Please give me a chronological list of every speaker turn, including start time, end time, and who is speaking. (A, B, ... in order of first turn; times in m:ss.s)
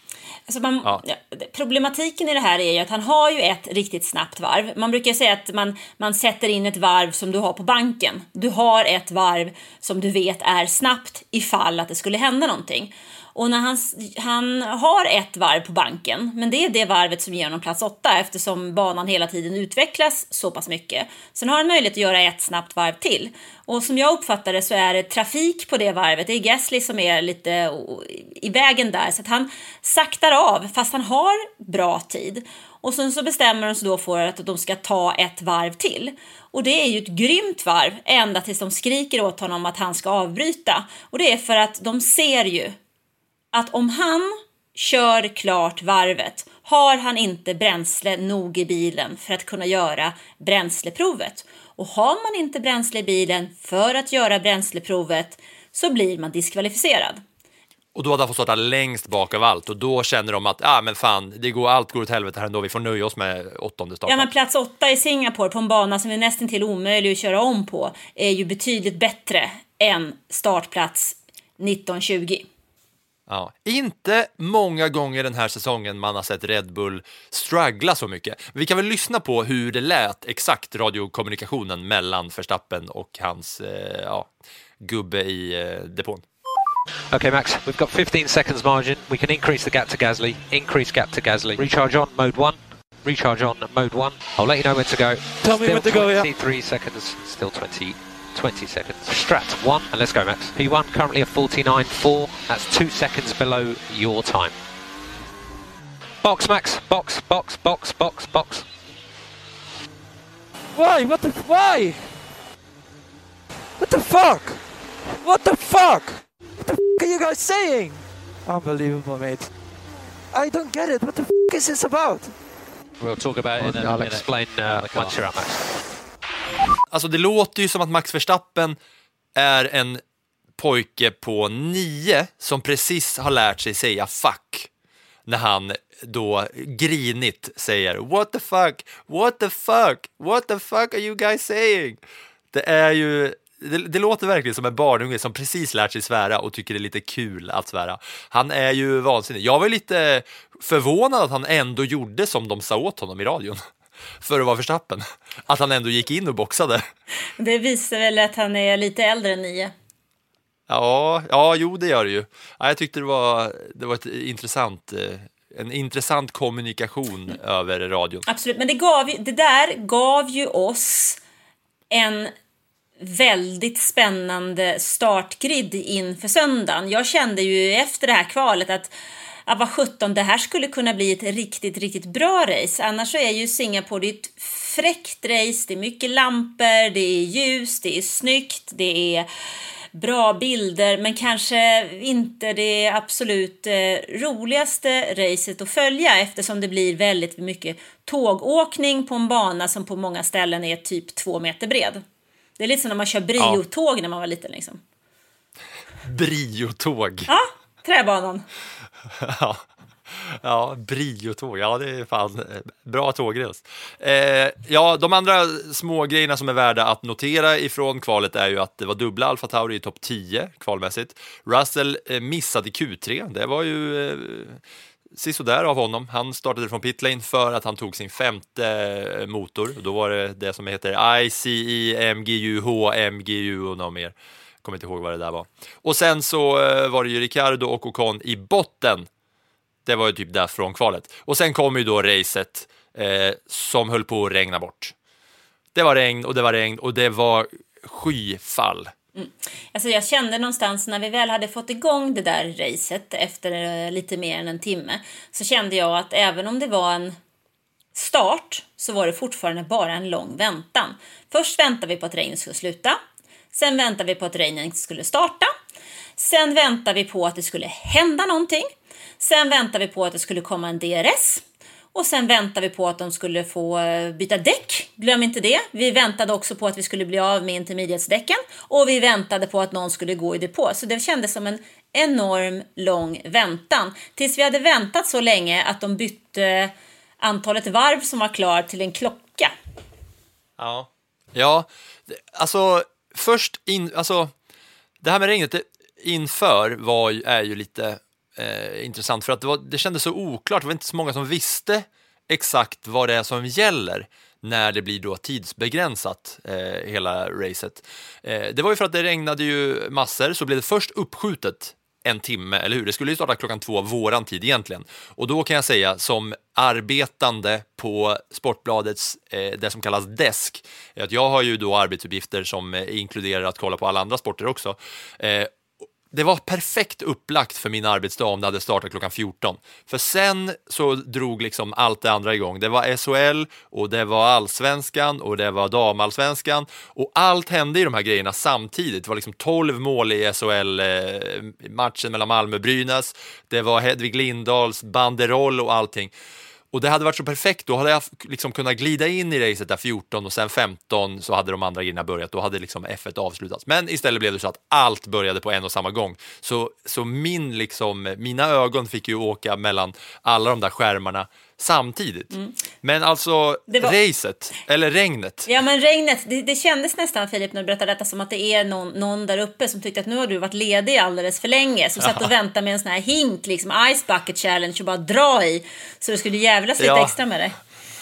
0:00.5-0:42.8 A
0:43.5-0:57.2 A
0:58.0-1:04.3 B
1:04.1-1:12.5 A
1:13.3-1:24.3 B
1:24.8-1:26.2 B
1:27.1-1:44.5 C
1:35.4-1:36.3 D
1:46.2-1:48.6 C
1:50.8-1:52.1 D
1:53.8-1:54.6 D
1:55.2-1:59.5 D
2:00.3-2:02.3 D
2:03.0-2:05.7 C
2:06.9-2:08.8 B
2:09.4-2:10.0 B
2:10.6-2:14.7 B
2:15.3-2:22.0 B
2:22.5-2:33.6 B
2:34.2-2:36.9 B
2:37.4-2:39.7 A
2:40.7-2:48.2 B
2:48.3-2:51.2 A
2:51.9-2:52.3 A
2:53.0-2:58.9 A
2:59.5-3:09.3 A
3:10.0-3:22.0 A
3:22.6-3:24.8 A
3:26.0-3:27.3 B
3:27.3-3:28.4 A
3:29.2-3:44.6 B
3:45.1-3:59.1 B
3:59.9-4:04.9 B
4:05.8-4:08.9 B
4:09.2-4:17.2 A
4:18.0-4:23.0 A
4:23.5-4:25.5 A
4:26.2-4:28.7 A
4:29.2-4:49.5 A
4:50.6-4:54.3 B
4:55.0-5:25.5 B
5:26.1-5:46.1 B
5:46.7-6:05.5 B
6:03.7-6:04.0 A
6:05.5-6:17.6 A
6:12.0-6:12.3 B
6:16.8-6:17.2 B